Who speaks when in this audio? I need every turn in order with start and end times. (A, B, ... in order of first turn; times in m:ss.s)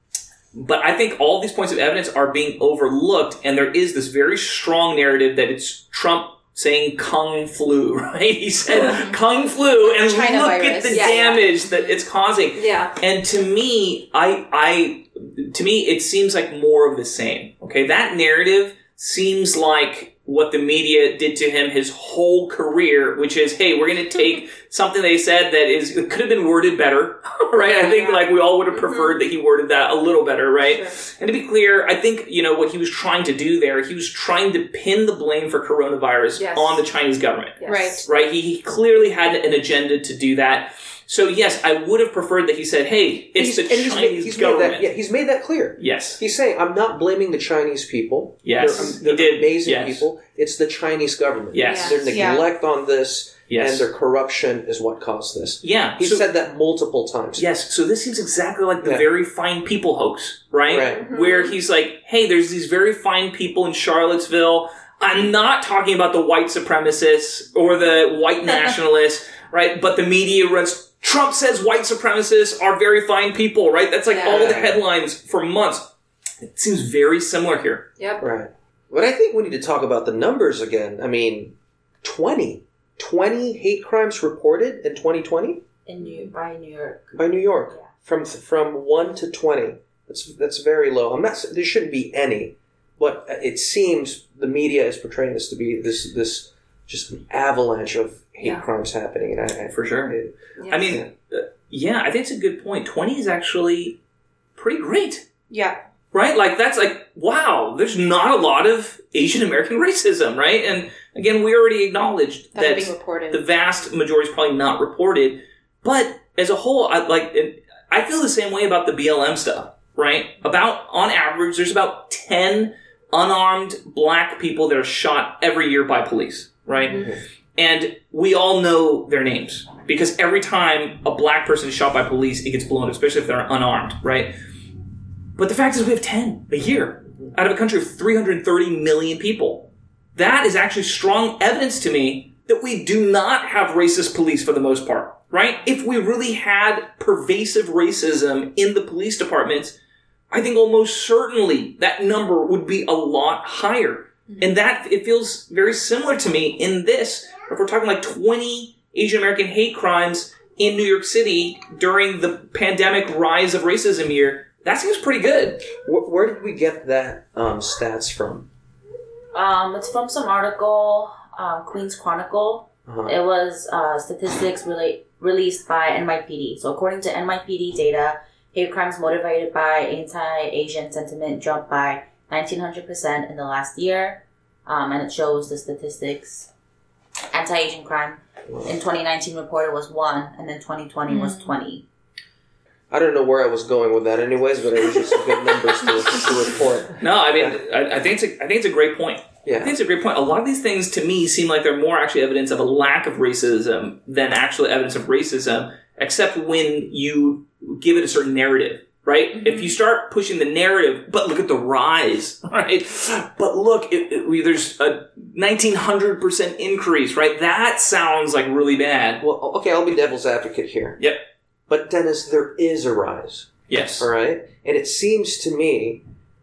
0:00.5-0:44.9 A
0:09.9-0:11.4 B
0:10.9-0:11.9 C
0:12.5-0:13.0 C
0:27.6-0:29.2 C
0:36.3-0:36.8 C
0:37.6-0:38.0 C
0:37.6-0:38.0 B
0:43.3-0:57.4 D
0:45.8-0:46.2 A
0:48.4-0:50.1 A
0:51.5-0:52.2 A
0:51.5-0:52.0 C
0:52.0-0:52.5 B
0:53.5-0:53.9 A
0:55.6-0:56.3 A
0:57.4-1:15.9 A
1:00.7-1:01.0 D
1:14.1-1:14.4 C
1:14.2-1:14.8 D
1:16.4-1:17.8 A
1:18.0-1:18.2 C
1:18.2-1:25.6 D
1:25.8-1:27.8 E
1:26.0-1:26.3 C
1:27.1-1:41.1 D
1:39.7-1:40.2 A
1:40.6-1:41.0 C
1:40.7-1:44.0 A
1:44.6-1:45.2 A
1:45.5-1:45.8 B
1:46.1-2:07.0 A
1:52.5-1:53.4 B
2:06.8-2:07.2 D
2:07.6-2:14.3 A
2:15.4-2:29.8 A
2:30.3-2:45.7 A
2:45.7-2:48.5 D
2:49.3-3:06.5 E
2:52.9-2:53.2 D
3:07.3-3:11.8 E
3:11.1-3:11.5 B
3:12.9-3:17.6 D
3:17.0-3:39.2 A
3:19.4-3:19.7 D
3:39.2-3:41.0 D
3:41.7-3:46.0 D
3:43.7-3:44.1 A